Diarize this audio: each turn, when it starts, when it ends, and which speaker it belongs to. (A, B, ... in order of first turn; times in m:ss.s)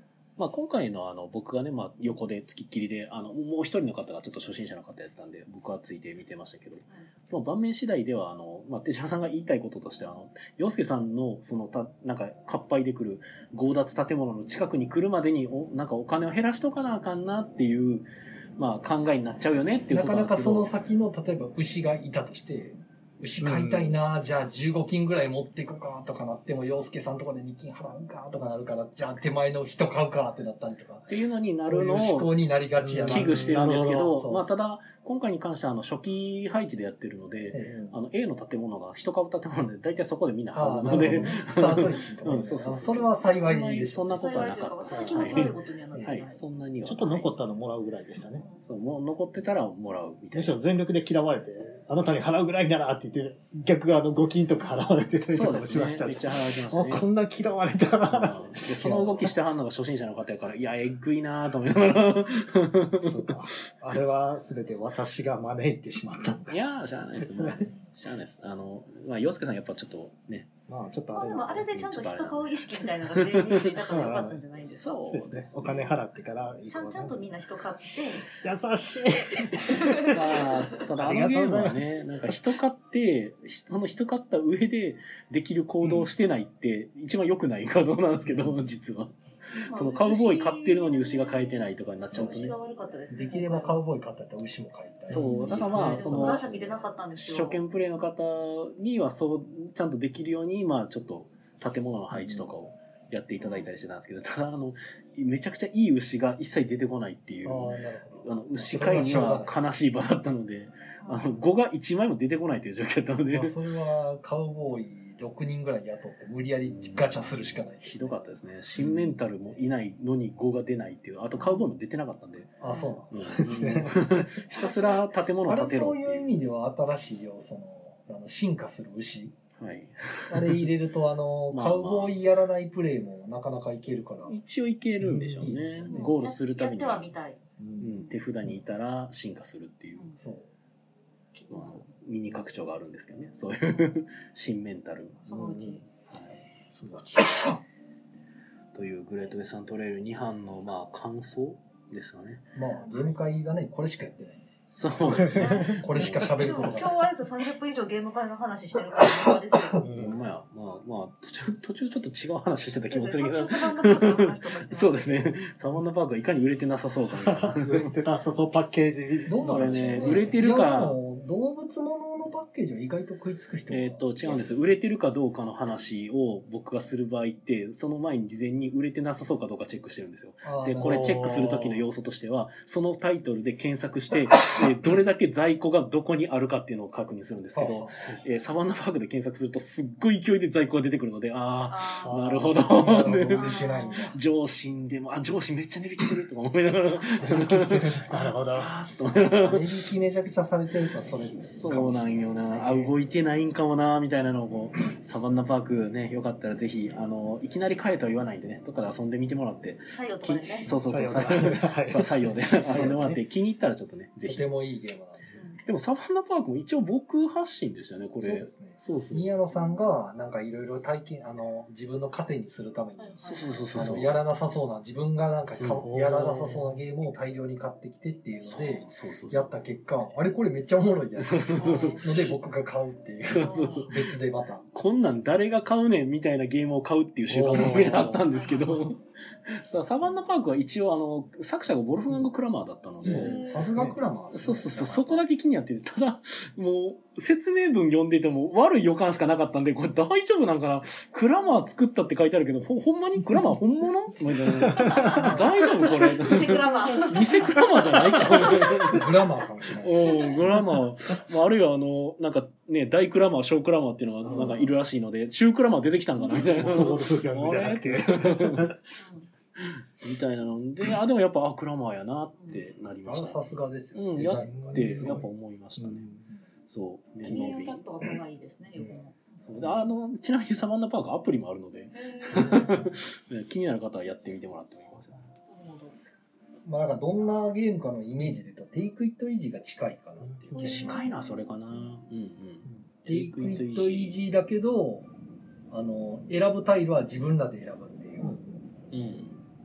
0:00.4-0:20.7 A
0:19.9-0:34.5 B
0:23.4-0:23.9 C
0:31.1-0:32.3 A
0:32.8-0:34.1 C
0:33.1-0:47.3 A
0:37.5-0:37.8 B
0:37.6-0:38.0 C
0:40.5-0:44.2 B
0:40.9-0:41.3 C
0:41.3-0:41.8 D
0:44.1-0:46.4 D
0:44.9-0:45.5 C
0:46.8-0:48.4 C
0:48.6-0:50.6 A
0:50.3-0:59.3 C
0:55.3-0:57.0 A
0:58.1-1:03.4 A
1:03.0-1:06.6 C
1:06.5-1:10.5 A
1:07.2-1:07.7 C
1:10.7-1:11.8 C
1:11.1-1:15.0 D
1:11.7-1:13.9 A
1:13.8-1:14.4 C
1:14.6-1:16.0 A
1:15.1-1:17.3 C
1:16.7-1:18.3 D
1:18.3-1:22.4 C
1:19.6-1:20.5 D
1:20.0-1:32.6 A
1:29.6-1:33.8 D
1:33.1-1:36.4 B
1:35.1-1:36.4 C
1:35.1-1:53.5 A
1:35.5-1:37.6 D
1:43.4-1:43.7 D
1:47.4-1:49.8 B
1:51.0-1:51.3 D
1:53.3-1:58.3 B
1:56.6-2:02.6 A
2:02.6-2:03.9 B
2:02.6-2:03.0 D
2:03.1-2:06.3 A
2:03.1-2:04.4 C
2:04.5-2:05.0 D
2:05.4-2:09.4 B
2:09.6-2:10.7 A
2:10.3-2:14.3 B
2:11.5-2:12.2 A
2:14.3-2:17.1 A
2:15.0-2:15.6 C
2:15.4-2:16.1 B
2:15.9-2:17.4 D
2:17.8-2:20.1 A
2:20.2-2:20.5 B
2:21.3-2:21.9 D
2:21.5-2:25.6 A
2:25.2-2:25.8 D
2:25.4-2:25.7 C
2:26.1-2:26.4 A
2:26.7-2:27.3 C
2:26.9-2:27.6 B
2:28.7-2:32.5 A
2:32.5-2:37.0 B
2:32.7-2:33.2 D
2:34.7-2:36.5 A
2:35.1-2:35.8 C
2:35.2-2:39.8 D
2:39.2-2:39.8 B
2:39.8-2:40.2 C
2:39.9-2:47.9 A
2:42.9-2:45.4 D
2:47.2-2:50.3 C
2:49.3-2:54.5 B
2:49.4-2:51.0 A
2:53.7-3:19.7 A
3:00.4-3:01.4 B
3:00.8-3:01.8 C
3:07.5-3:08.0 B
3:11.7-3:12.2 D
3:12.0-3:12.6 C
3:12.7-3:14.2 B
3:13.3-3:14.1 D
3:17.2-3:18.7 C
3:19.4-3:22.9 B
3:21.4-3:34.5 A
3:29.9-3:30.7 D
3:30.7-3:33.2 C
3:34.3-3:35.3 B
3:35.3-3:35.6 D
3:35.6-3:39.3 A
3:38.2-3:54.6 B
3:43.0-3:43.8 D
3:43.2-3:44.2 A
3:45.6-3:46.6 A
3:45.8-3:46.6 C
3:48.4-3:49.6 A
3:51.2-3:52.4 A
3:51.6-3:52.1 D
3:53.2-3:54.1 A
3:53.3-3:54.0 D
3:54.7-4:03.5 A
3:57.3-3:58.2 B
3:57.3-3:58.2 C
3:58.3-3:58.8 D
4:03.0-4:05.2 B
4:03.1-4:04.0 C
4:03.1-4:03.7 D
4:04.3-4:19.1 A
4:14.6-4:15.3 C
4:14.9-4:19.0 D
4:15.0-4:15.7 B
4:18.3-4:20.3 B
4:19.8-4:28.7 A
4:20.0-4:20.4 D
4:24.3-4:24.6 C
4:26.4-4:28.8 C
4:29.0-4:29.3 D
4:29.6-4:36.1 A
4:33.0-4:35.3 B
4:34.4-4:35.2 C
4:35.8-4:36.2 C
4:36.7-4:37.8 A
4:37.2-4:39.2 D
4:39.4-4:45.3 A
4:41.9-4:42.9 D
4:45.5-4:46.0 D
4:46.6-4:51.0 B
4:50.5-4:54.2 A
4:50.6-4:51.2 D
4:53.0-4:55.1 B
4:55.7-4:58.3 B
4:58.2-4:58.5 C
4:58.9-4:59.4 A